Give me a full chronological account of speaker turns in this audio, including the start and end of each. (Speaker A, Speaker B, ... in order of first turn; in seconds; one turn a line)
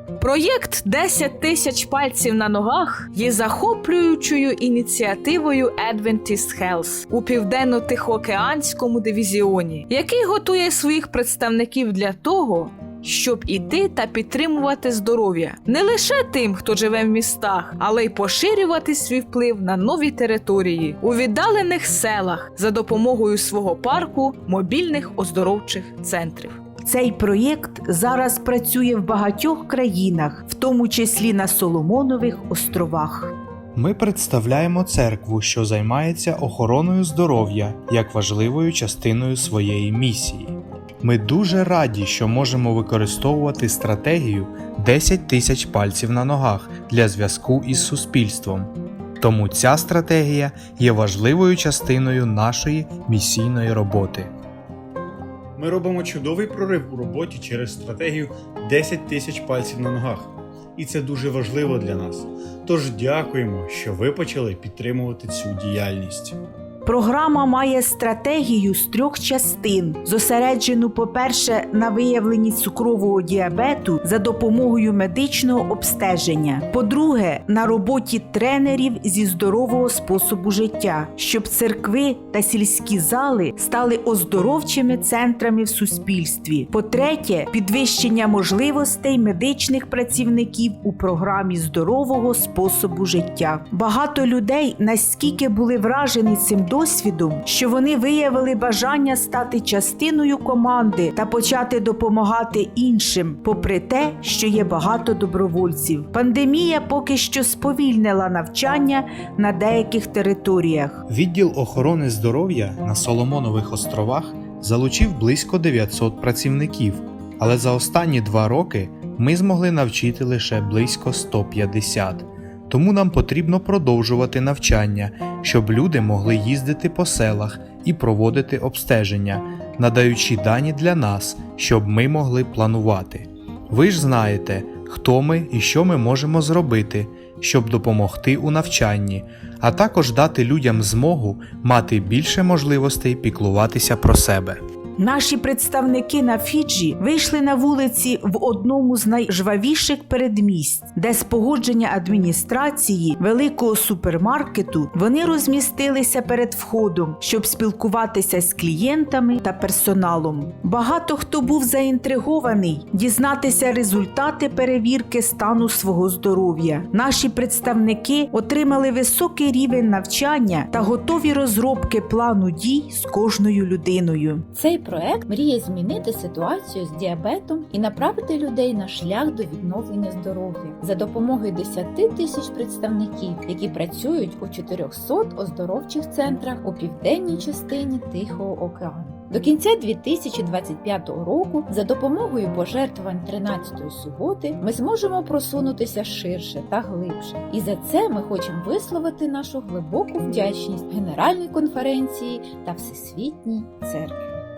Speaker A: 0.2-26.6
Speaker B: 26.8-33.3
Speaker C: 33.8-54.3
Speaker D: 55.6-66.4
Speaker B: 66.8-111.0
Speaker C: 111.1-144.6
Speaker B: 145.0-174.5
Speaker E: 174.6-204.2